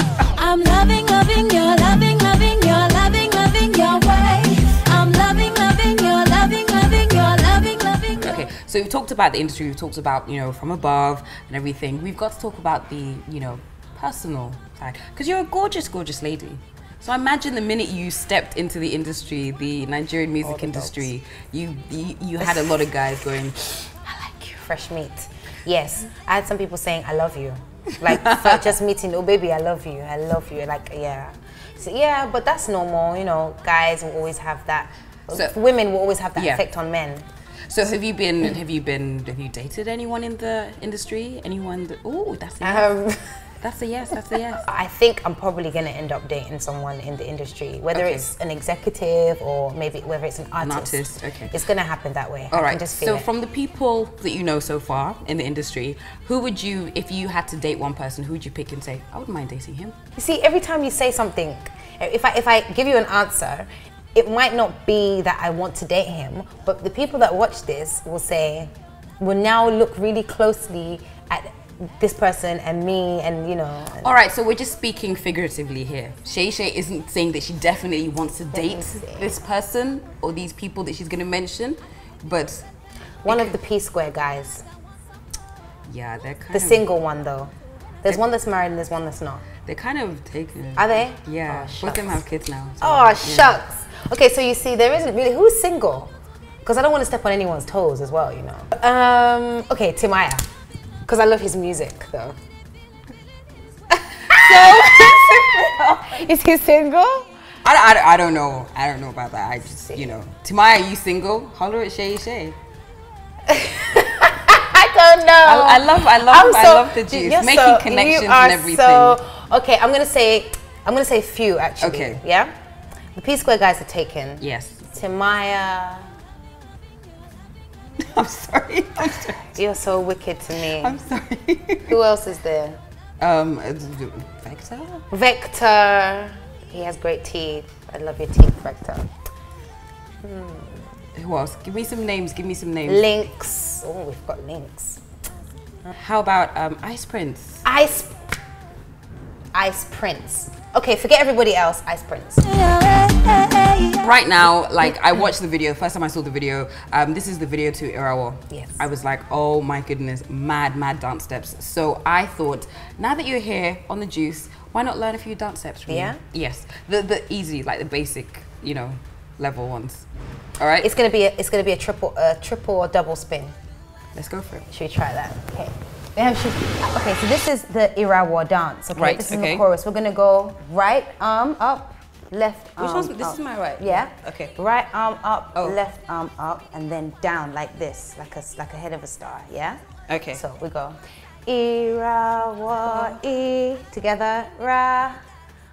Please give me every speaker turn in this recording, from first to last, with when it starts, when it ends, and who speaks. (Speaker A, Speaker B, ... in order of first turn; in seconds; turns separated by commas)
Speaker A: 0.3-8.3, Speaker B: 8.2-24.6, Speaker C: 20.4-21.1, Speaker C: 22.4-22.9, Speaker C: 24.5-37.2, Speaker B: 28.0-28.7, Speaker B: 36.4-36.6, Speaker B: 37.7-43.0, Speaker C: 42.6-43.5, Speaker B: 43.6-44.7, Speaker C: 44.6-53.3, Speaker B: 47.9-48.3, Speaker B: 50.6-51.5, Speaker B: 52.5-60.0, Speaker C: 60.2-74.1, Speaker B: 74.0-82.7, Speaker C: 78.5-79.3, Speaker C: 83.2-84.7, Speaker B: 83.3-83.6, Speaker B: 85.9-86.8, Speaker C: 86.5-89.5, Speaker B: 89.7-93.6, Speaker C: 90.8-92.2, Speaker C: 92.8-96.1, Speaker C: 96.6-100.5, Speaker C: 101.1-102.4, Speaker C: 104.1-107.3, Speaker B: 104.3-106.2, Speaker B: 107.6-112.6, Speaker C: 113.5-122.5, Speaker B: 115.4-119.2, Speaker B: 121.8-122.2, Speaker C: 123.2-126.1, Speaker B: 124.4-124.8, Speaker B: 128.0-129.5, Speaker C: 129.4-131.0, Speaker B: 130.7-131.9, Speaker C: 131.9-132.8, Speaker B: 133.2-135.1, Speaker C: 135.1-139.1, Speaker C: 140.2-140.9, Speaker B: 141.2-143.2, Speaker C: 142.9-145.0, Speaker B: 145.9-147.6, Speaker C: 147.6-148.2, Speaker C: 149.5-152.8, Speaker A: 152.7-154.0, Speaker B: 153.9-170.1, Speaker C: 158.5-158.8, Speaker C: 165.9-166.2, Speaker B: 170.6-170.9, Speaker C: 170.8-173.6, Speaker B: 174.2-174.7, Speaker C: 174.7-189.8, Speaker B: 178.9-179.7, Speaker B: 182.8-184.5, Speaker B: 190.1-190.4, Speaker C: 190.3-195.2, Speaker B: 192.8-193.2